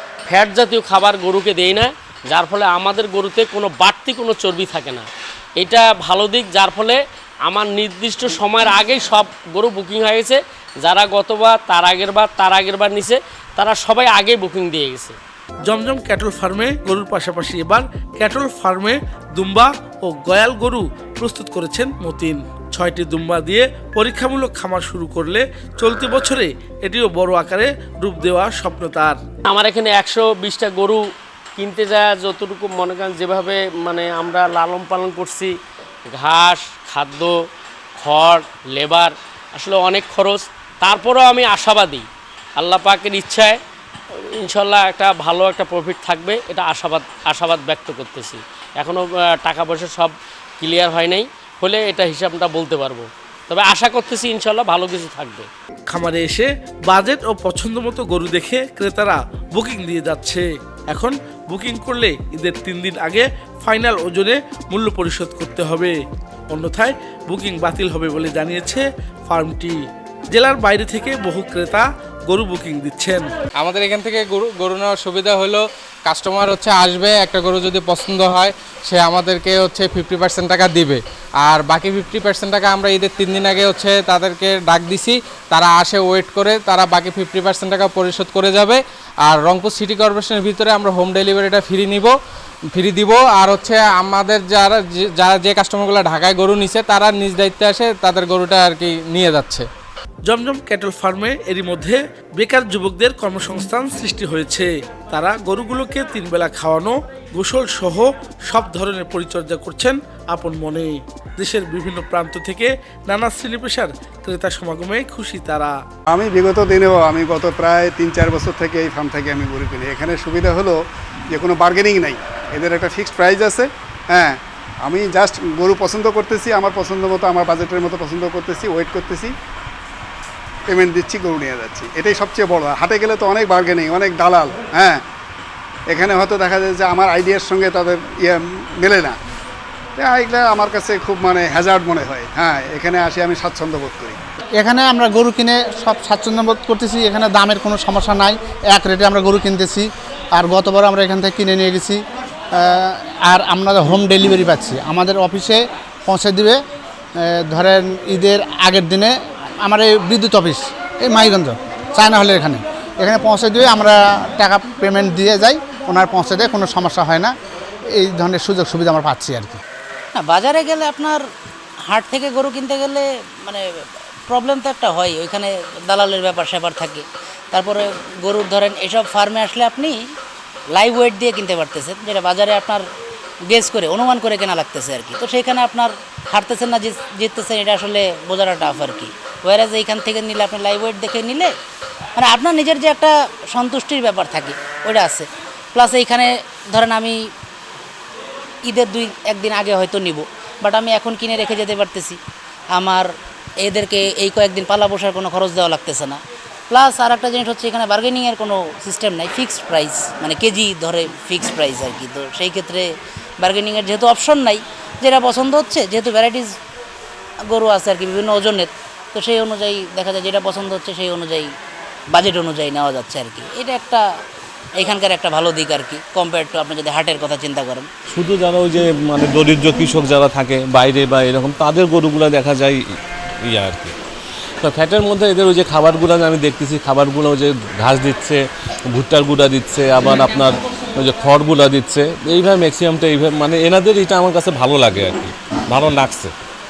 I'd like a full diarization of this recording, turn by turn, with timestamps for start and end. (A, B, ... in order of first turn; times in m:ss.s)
0:00.3-0:05.1 A
0:05.6-0:15.1 A
0:15.6-0:29.2 B
0:29.5-0:31.0 A
0:31.6-0:35.5 A
0:36.1-0:37.3 A
0:38.0-0:42.1 A
0:42.6-0:43.6 A
0:44.4-0:55.5 A
0:55.9-1:06.0 B
1:06.5-1:13.3 B
1:13.6-1:32.1 C
1:32.7-1:39.7 C
1:40.2-1:55.8 B
1:56.1-2:00.8 D
2:01.3-2:09.3 D
2:10.7-2:15.0 D
2:15.9-2:19.2 D
2:20.0-2:24.2 D
2:24.6-2:32.0 E
2:32.6-2:36.6 E
2:37.2-2:47.3 E
2:48.0-2:49.6 E
2:50.1-2:51.2 F
2:51.9-2:53.6 F
2:54.3-3:00.0 F
3:00.7-3:02.8 F
3:03.5-3:11.5 F
3:12.2-3:17.2 F
3:18.6-3:22.2 F
3:22.7-3:23.1 F
3:23.6-3:32.8 F
3:33.4-3:36.5 F
3:37.5-3:41.5 F
3:42.1-3:44.0 F
3:44.8-3:47.9 F
3:48.1-3:52.8 G
3:53.4-3:53.9 G
3:54.6-4:06.3 G